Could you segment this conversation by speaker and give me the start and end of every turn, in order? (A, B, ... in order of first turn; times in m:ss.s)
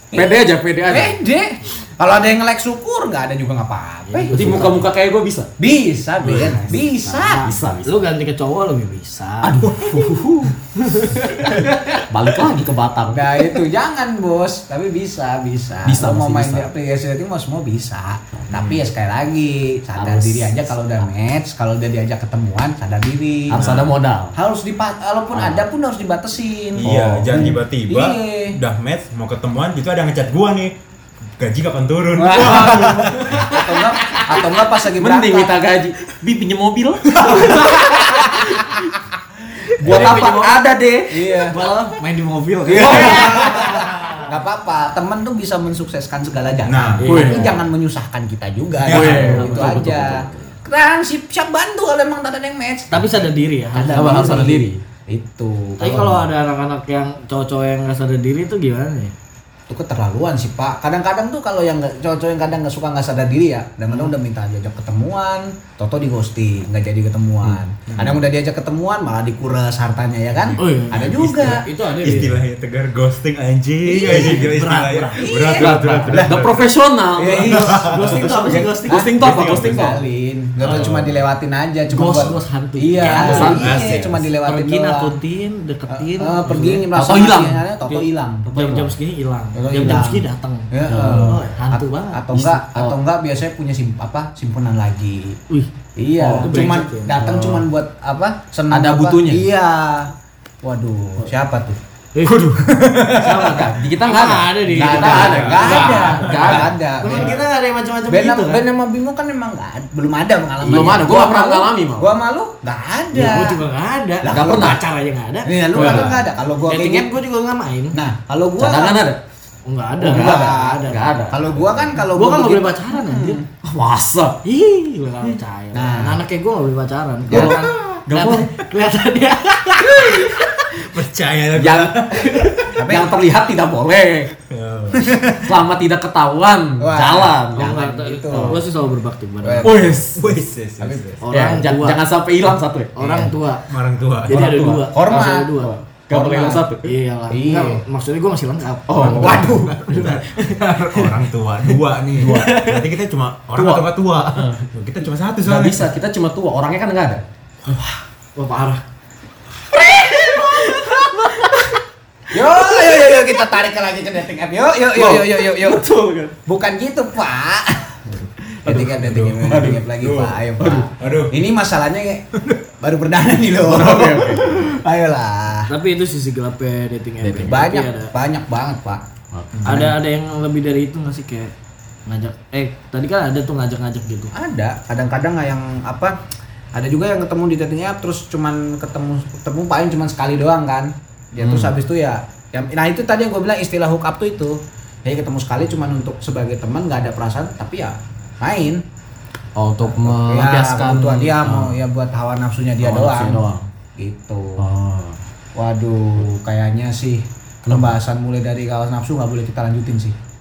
0:00.1-0:04.7 A
0:00.1-0:01.2 B
0:04.1-0:04.9 C
0:04.3-0:05.5 B
0:05.6-0:07.5 A
0:06.2-0:06.6 D
0:06.3-0:09.7 C
0:07.4-0:07.9 B
0:07.4-0:07.8 D
0:09.4-0:10.5 B
0:10.8-0:11.7 C
0:11.4-0:13.3 B
0:13.1-0:23.7 A
0:15.8-0:16.7 B
0:18.5-0:18.8 D
0:20.0-0:20.5 B
0:23.5-0:24.3 B
0:24.3-0:28.6 A
0:26.8-0:27.6 B
0:26.8-0:30.7 D
0:31.4-0:33.5 D
0:32.2-0:35.6 A
0:32.3-0:33.1 B
0:32.6-0:33.5 C
0:34.1-0:38.9 B
0:37.3-0:38.1 A
0:39.8-0:41.5 B
0:39.8-0:40.6 C
0:39.8-0:40.3 A
0:41.1-0:41.6 A
0:41.5-0:44.2 C
0:42.7-0:56.3 A
0:42.7-0:43.6 B
0:46.6-0:47.2 D
0:47.0-0:47.6 C
0:47.0-0:47.6 B
0:48.8-0:49.4 D
0:48.9-0:50.2 B
0:48.9-0:50.5 C
0:52.9-0:54.7 C
0:53.8-0:54.8 B
0:55.8-0:59.1 C
0:59.7-1:11.6 A
1:07.9-1:08.2 D
1:10.4-1:16.6 D
1:10.6-1:12.4 C
1:13.8-1:14.4 A
1:14.0-1:16.1 C
1:15.2-1:16.4 A
1:15.6-1:17.8 B
1:17.2-1:25.2 A
1:17.4-1:19.1 C
1:17.4-1:19.9 D
1:18.8-1:20.0 B
1:20.6-1:21.2 D
1:21.9-1:23.7 C
1:23.0-1:23.7 B
1:23.0-1:24.2 D
1:24.4-1:26.9 C
1:25.9-1:28.5 A
1:26.9-1:27.6 B
1:28.4-1:32.3 C
1:28.5-1:28.9 B
1:29.5-1:35.4 A
1:30.9-1:31.4 B
1:32.3-1:33.0 B
1:35.5-1:37.6 C
1:36.0-1:40.1 A
1:36.4-1:36.7 B
1:37.2-1:37.6 B
1:38.7-1:39.4 B
1:40.6-1:41.8 A
1:42.1-1:48.6 C
1:42.2-1:46.7 B
1:42.7-1:43.6 D
1:44.7-1:47.4 A
1:45.0-1:47.4 D
1:48.1-1:53.6 A
1:50.6-1:52.1 B
1:53.1-1:58.0 C
1:54.2-1:54.8 A
1:54.3-1:54.8 B
1:55.4-1:57.1 A
1:55.7-1:56.2 B
1:57.9-1:59.0 A
1:58.6-1:59.2 B
1:59.6-2:01.2 C
2:00.0-2:01.6 B
2:00.0-2:03.4 A
2:02.1-2:03.4 C
2:03.6-2:04.4 B
2:04.4-2:10.7 C
2:05.7-2:06.2 A
2:07.3-2:07.7 A
2:07.3-2:08.5 B
2:10.6-2:12.7 D
2:11.5-2:14.3 B
2:12.7-2:13.2 A
2:14.5-2:15.2 D
2:15.0-2:15.4 A
2:15.4-2:17.7 B
2:16.8-2:18.6 A
2:17.5-2:19.7 C
2:19.4-2:20.0 A
2:19.6-2:20.2 B
2:20.1-2:21.2 D
2:20.8-2:21.1 A
2:21.2-2:22.0 C
2:21.3-2:23.3 B
2:23.0-2:23.7 C
2:23.7-2:24.5 D
2:24.3-2:25.7 C
2:24.3-2:26.9 B
2:24.9-2:26.7 A
2:26.8-2:31.2 C
2:27.3-2:27.8 A
2:28.9-2:29.6 B
2:29.0-2:35.8 D
2:29.1-2:30.1 A
2:32.2-2:32.8 C
2:33.5-2:34.6 B
2:35.4-2:37.2 B
2:37.7-2:38.8 C
2:39.7-2:41.8 C
2:42.3-2:45.8 A
2:42.4-2:43.4 C
2:45.0-2:46.3 C
2:46.4-2:52.3 A
2:48.6-2:51.4 D
2:52.8-2:55.7 A
2:53.6-2:54.7 D
2:53.9-2:54.3 B
2:55.7-2:58.1 C
2:57.2-2:59.0 A
2:59.4-2:59.9 B
2:59.6-3:01.5 C
3:02.1-3:04.3 C
3:04.3-3:06.2 A
3:06.7-3:18.8 A
3:11.4-3:11.7 B
3:19.6-3:21.7 B
3:19.8-3:23.4 A
3:22.8-3:23.6 B
3:24.0-3:24.6 A
3:24.6-3:25.2 B
3:25.6-3:30.2 A
3:27.6-3:28.0 B